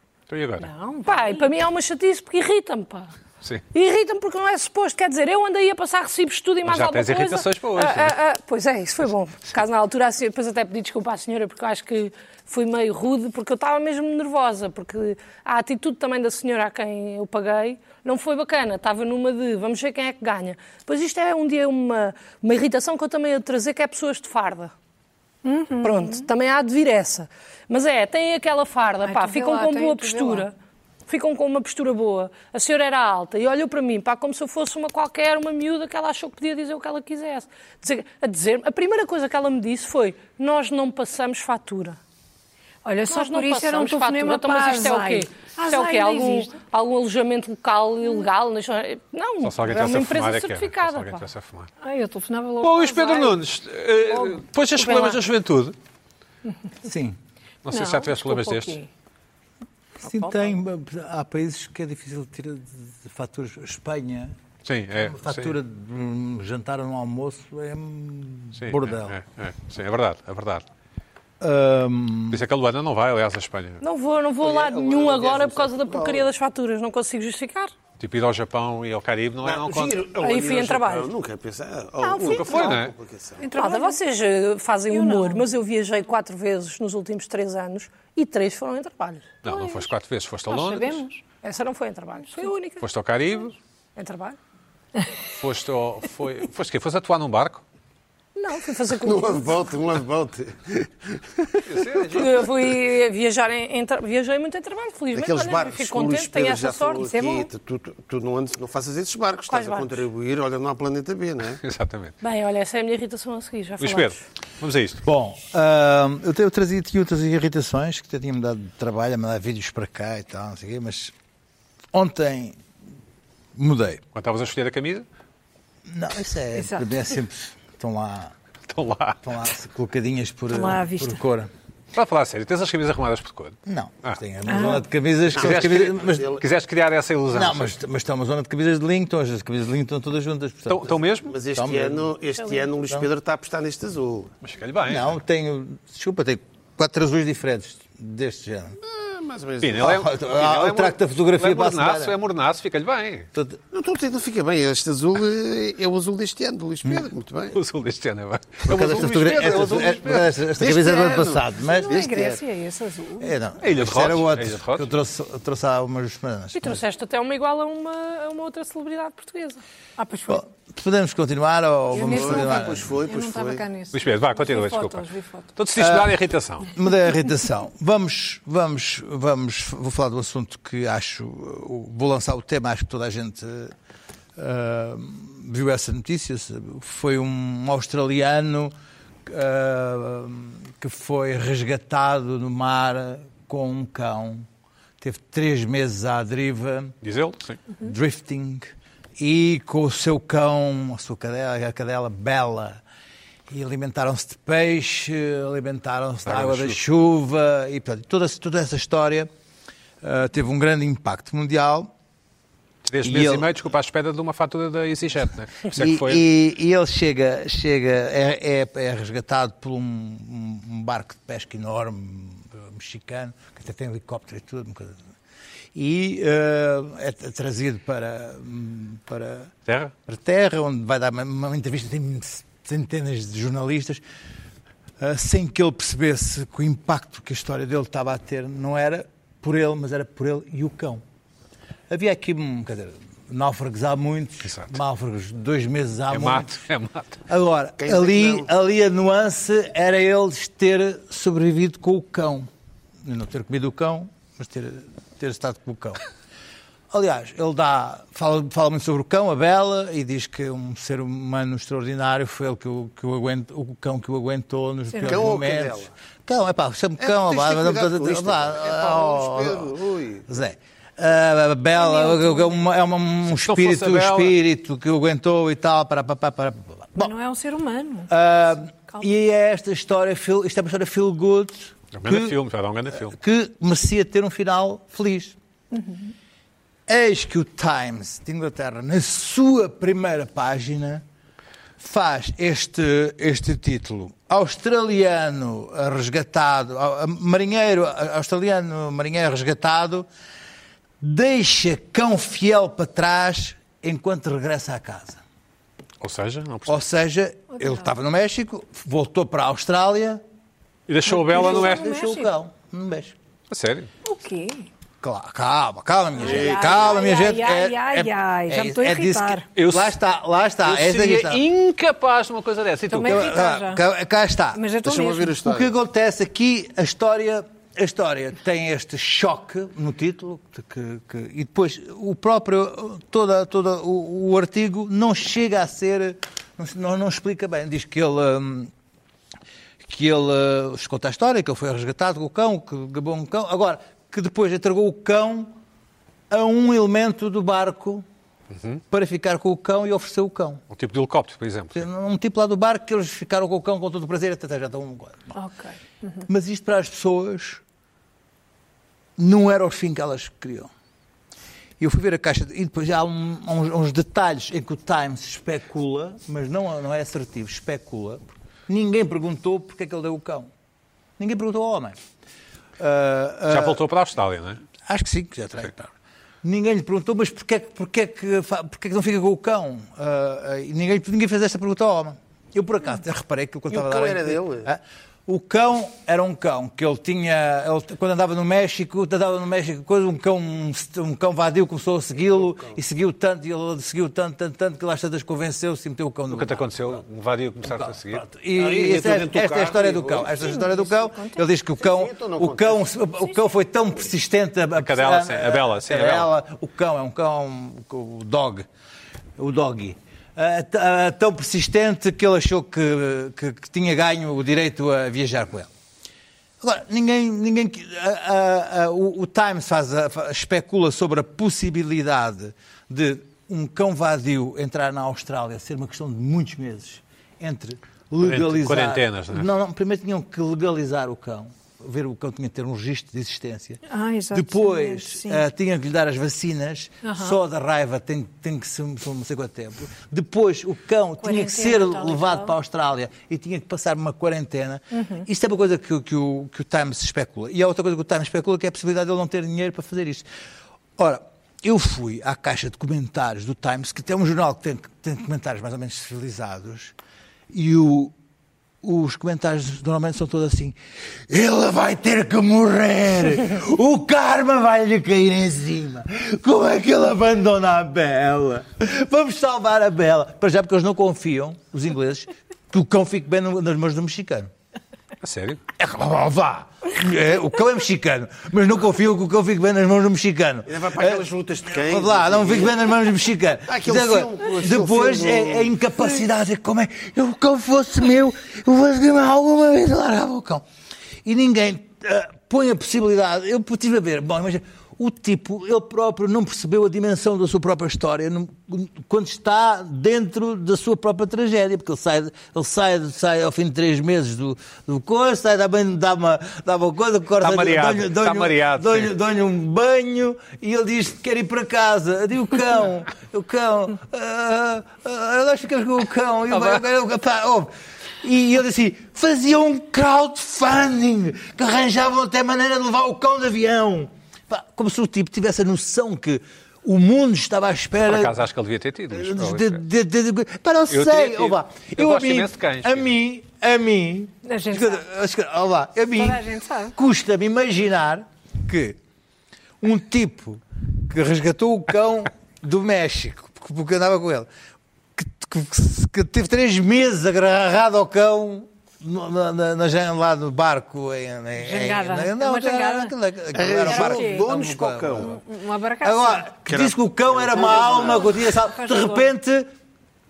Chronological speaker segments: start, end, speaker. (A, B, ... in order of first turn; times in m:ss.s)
0:00.3-0:00.7 A
0:00.6-0:01.5 B
0:01.1-0:03.1 C
0:03.7-0:24.7 C
0:06.6-0:08.2 A
0:25.4-0:26.3 B
0:25.8-0:30.5 C
0:29.0-0:30.5 B
0:31.1-0:42.0 C
0:42.8-0:46.6 B
0:43.1-0:51.3 C
0:49.4-0:51.7 A
0:51.8-0:53.4 B
0:52.6-0:55.8 A
0:54.1-0:55.2 B
0:56.8-0:57.2 D
0:57.6-0:58.8 A
0:57.7-0:58.9 B
1:00.0-1:04.4 D
1:00.1-1:00.5 B
1:04.6-1:05.6 A
1:05.0-1:09.2 D
1:08.6-1:10.7 A
1:11.4-1:12.4 D
1:12.3-1:13.8 A
1:13.8-1:17.7 C
1:14.4-1:16.3 E
1:18.0-1:20.0 A
1:19.4-1:23.5 E
1:20.2-1:21.1 C
1:22.0-1:22.8 B
1:22.2-1:22.9 A
1:23.4-1:24.0 B
1:23.6-1:29.4 C
1:24.9-1:25.4 B
1:29.4-1:31.0 A
1:29.5-1:29.9 B
1:30.5-1:31.2 B
1:31.4-1:32.8 C
1:32.8-1:33.6 A
1:34.0-1:34.4 C
1:35.4-1:37.6 A
1:38.4-1:39.6 C
1:38.9-1:41.9 E
1:41.6-1:42.3 A
1:42.1-1:47.1 C
1:45.1-1:51.6 E
1:47.1-1:47.5 B
1:49.5-1:50.0 C
1:51.6-1:52.2 A
1:52.2-1:54.2 C
1:53.8-1:55.0 A
1:55.0-2:01.1 D
2:01.9-2:02.6 D
2:03.6-2:04.0 D
2:04.1-2:05.1 A
2:05.9-2:08.3 D
2:06.6-2:06.9 B
2:08.7-2:09.2 A
2:09.2-2:11.5 D
2:10.5-2:11.2 B
2:11.9-2:14.2 A
2:13.7-2:16.4 D
2:14.5-2:14.8 B
2:15.4-2:17.8 A
2:15.4-2:16.4 E
2:17.3-2:21.0 D
2:20.7-2:21.4 A
2:21.2-2:24.3 E
2:21.5-2:22.2 D
2:22.4-2:22.7 C
2:24.4-2:25.2 A
2:24.9-2:28.8 D
2:28.8-2:30.0 E
2:29.6-2:33.3 A
2:29.8-2:32.2 D
2:33.3-2:33.6 D
2:33.7-2:37.6 E
2:37.5-2:40.3 A
2:38.7-2:42.0 D
2:40.6-2:42.4 E
2:41.6-2:43.3 B
2:43.2-2:46.8 D
2:43.6-2:44.9 A
2:46.5-2:49.6 C
2:50.0-2:50.4 B
2:50.3-2:53.0 D
2:51.9-2:55.5 B
2:51.9-2:53.7 E
2:53.9-2:56.7 A
2:55.8-2:56.2 D
2:56.7-3:03.7 D
3:04.4-3:08.7 D
3:09.3-3:14.5 D
3:15.0-3:17.0 D
3:17.0-3:17.6 A
3:17.8-3:22.8 D
3:23.5-3:29.3 D
3:26.2-3:26.8 A
3:30.0-3:31.9 D
3:32.8-3:36.2 A
3:33.0-3:33.5 D
3:35.8-3:45.0 D
3:45.8-3:49.5 D
3:49.7-3:49.9 A
3:50.1-3:54.0 D
3:55.0-4:01.0 D
4:01.9-4:06.6 D
4:04.4-4:04.8 A
4:06.1-4:07.2 A
4:07.3-4:12.5 D
4:07.8-4:08.5 E
4:13.0-4:16.0 D
4:16.9-4:29.7 D
4:24.9-4:25.3 B
4:25.1-4:25.9 E
4:27.0-4:30.3 E
4:30.3-4:37.1 D
4:31.8-4:32.5 B
4:33.3-4:34.4 A
4:37.0-4:38.1 B
4:38.1-4:42.4 D
4:41.9-4:43.2 A
4:42.9-4:45.4 D
4:45.7-4:46.1 B
4:46.9-4:51.0 D
4:51.8-5:00.1 D
5:01.0-5:05.2 D
5:06.0-5:06.8 A
5:06.7-5:10.2 D
5:10.9-5:11.9 A
5:11.1-5:12.3 B
5:11.1-5:13.2 D
5:13.5-5:13.9 A
5:14.0-5:14.7 B
5:15.0-5:21.4 D
5:16.2-5:19.5 B
5:16.2-5:17.1 E
5:19.6-5:20.0 A
5:20.6-5:23.4 A
5:22.9-5:23.8 B
5:23.0-5:24.6 D
5:24.5-5:25.4 B
5:24.8-5:25.7 E
5:25.4-5:38.7 D
5:39.8-5:45.5 D
5:46.3-5:48.0 D
5:48.5-5:48.8 A
5:48.9-5:50.6 D
5:50.7-5:51.9 A
5:51.7-5:55.4 D
5:55.4-5:56.3 B
5:56.3-5:57.6 D
5:59.2-6:00.7 D
6:01.8-6:10.5 D
6:11.2-6:12.0 D
6:12.8-6:13.8 D
6:13.5-6:14.6 A
6:14.8-6:15.9 D
6:16.4-6:36.9 D
6:23.7-6:24.7 E
6:32.3-6:32.8 E
6:36.3-6:38.3 A
6:37.7-6:48.7 D
6:38.5-6:40.4 E
6:40.4-6:41.4 B
6:41.8-6:42.8 E
6:44.8-6:46.3 A
6:49.4-6:55.7 D
6:56.6-7:30.3 D
7:08.2-7:09.5 A
7:13.9-7:15.4 B
7:17.0-7:17.4 B
7:21.2-7:22.5 B
7:24.9-7:25.3 B
7:31.0-7:36.9 D
7:37.5-7:38.1 D
7:38.8-7:40.8 D
7:41.3-7:54.5 D
7:55.2-7:55.6 A
7:55.8-8:10.6 D
8:00.7-8:02.8 E
8:03.7-8:05.7 E
8:11.2-8:48.4 D
8:27.4-8:29.1 A
8:36.5-8:36.8 A
8:48.1-8:49.8 A
8:49.1-8:59.0 D
8:50.9-8:53.1 A
8:54.4-8:55.0 B
8:56.2-8:57.0 B
8:59.8-9:04.5 D
9:05.2-9:15.4 D
9:11.6-9:13.1 B
9:13.5-9:15.4 E
9:13.8-9:14.6 B
9:15.2-9:16.6 B
9:16.0-9:19.7 D
9:16.7-9:18.3 E
9:17.6-9:19.3 B